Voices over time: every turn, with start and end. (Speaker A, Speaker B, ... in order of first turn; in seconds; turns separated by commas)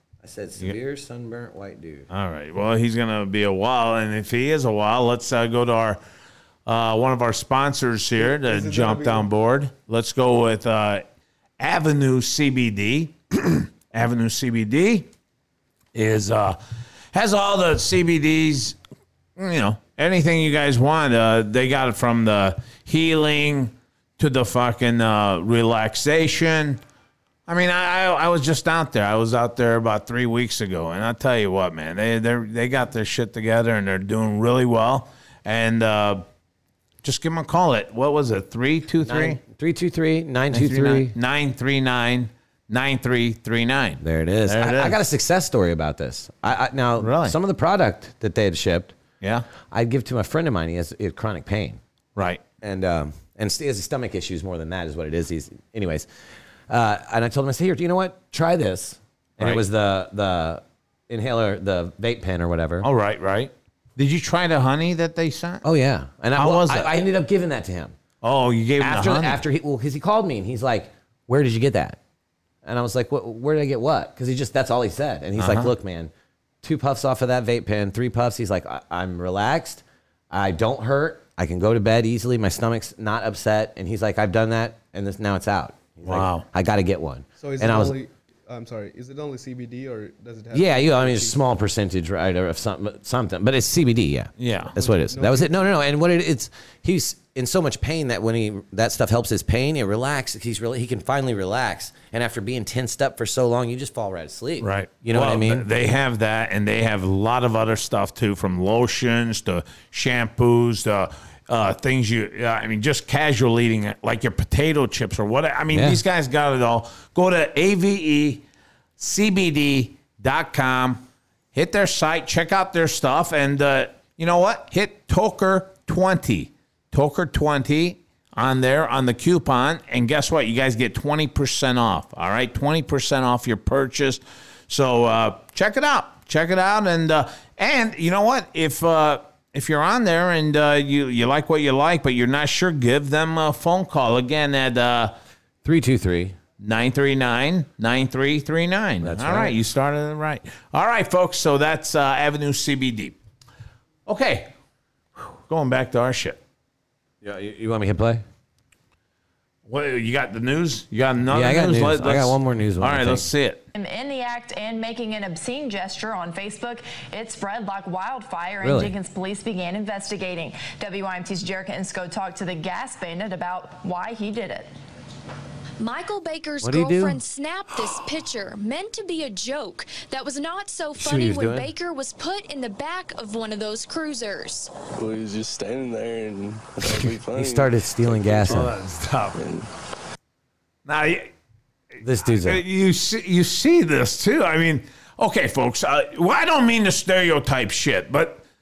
Speaker A: 0.2-2.1, Speaker B: 2.1-6.0, Speaker B: 6.7-11.0, Speaker C: 8.2-9.3, Speaker B: 11.6-15.1, Speaker B: 15.9-16.6, Speaker B: 17.1-18.8, Speaker B: 19.4-26.8, Speaker B: 27.5-36.2, Speaker B: 37.0-39.4, Speaker A: 39.0-41.1, Speaker B: 40.5-45.0, Speaker A: 44.0-48.9, Speaker B: 47.0-47.4, Speaker B: 49.2-49.5, Speaker A: 49.7-51.8, Speaker B: 52.1-52.4, Speaker A: 52.6-56.1, Speaker A: 56.7-62.9, Speaker B: 59.4-59.6, Speaker B: 62.8-65.6, Speaker A: 65.6-68.0, Speaker B: 66.3-66.9, Speaker B: 68.2-69.4, Speaker A: 68.8-72.0, Speaker A: 72.6-76.1, Speaker B: 75.4-75.7, Speaker A: 76.6-88.0, Speaker B: 86.0-86.5, Speaker C: 87.4-91.4, Speaker A: 90.5-105.7, Speaker B: 94.4-94.7, Speaker C: 94.7-95.7, Speaker B: 104.6-118.4, Speaker A: 115.7-116.0, Speaker B: 119.0-121.0, Speaker B: 121.5-145.1, Speaker A: 145.6-146.4, Speaker B: 146.6-153.2, Speaker A: 149.0-149.6, Speaker B: 154.1-154.5, Speaker B: 155.2-156.4, Speaker A: 157.2-158.2, Speaker B: 159.7-163.6, Speaker A: 161.3-163.3, Speaker D: 163.7-174.7, Speaker A: 168.6-168.9, Speaker E: 175.8-184.7, Speaker A: 176.6-177.2, Speaker A: 181.0-181.7, Speaker F: 185.0-188.7, Speaker A: 187.3-188.7, Speaker B: 188.4-189.4, Speaker F: 189.3-189.7, Speaker B: 190.8-191.3, Speaker A: 192.0-192.6, Speaker B: 192.2-198.4